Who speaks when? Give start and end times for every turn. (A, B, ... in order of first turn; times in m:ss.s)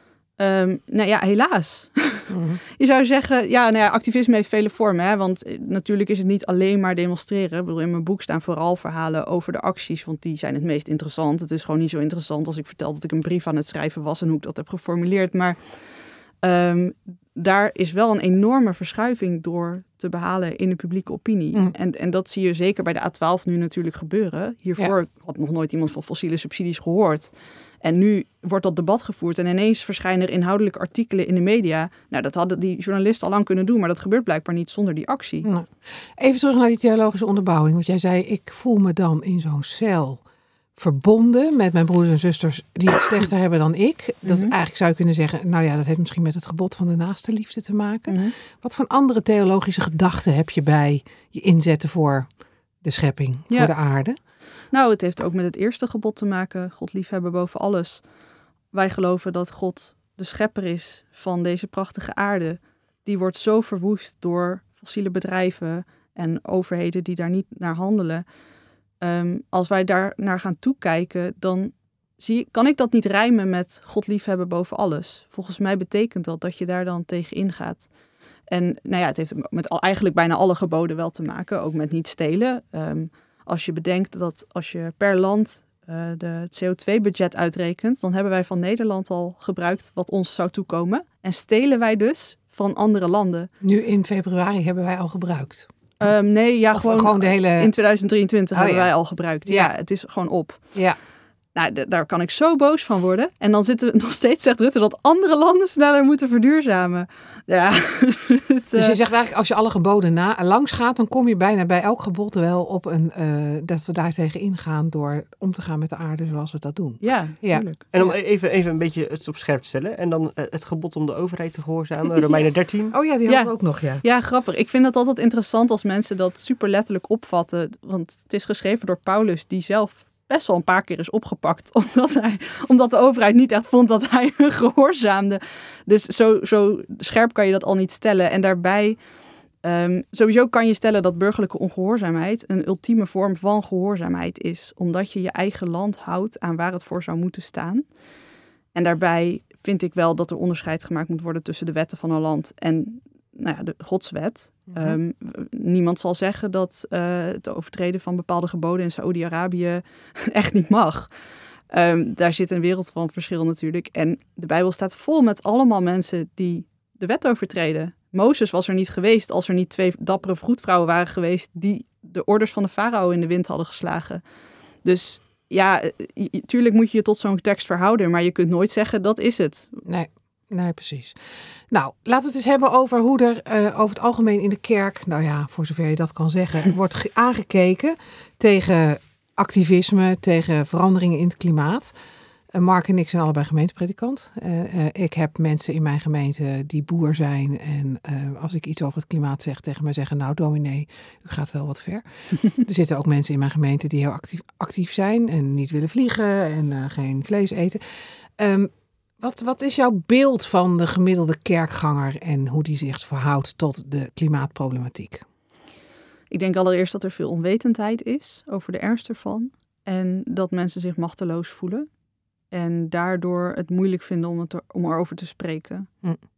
0:00.4-0:35.5 A
0:02.3-0:02.6 B
0:35.4-0:40.2 B
0:40.8-0:54.2 B
0:44.2-0:44.5 A
0:48.1-0:48.3 A
0:54.7-0:58.0 A
0:58.7-1:08.3 A
1:09.0-1:17.9 A
1:18.5-1:33.5 A
1:33.6-1:35.7 B
1:36.0-1:40.9 A
1:36.7-1:37.7 B
1:38.5-1:39.7 B
1:41.5-1:49.0 A
1:48.8-1:58.1 B
1:57.0-1:57.8 A
1:57.9-2:03.0 C
2:02.9-2:04.0 B
2:03.2-2:19.0 A
2:19.6-2:27.9 A
2:28.7-2:41.1 A
2:34.7-2:35.0 B
2:41.7-2:54.2 A
2:54.8-2:59.8 A
2:59.8-3:11.9 B
3:12.5-3:35.2 B
3:36.3-3:41.9 A
3:42.5-3:46.0 A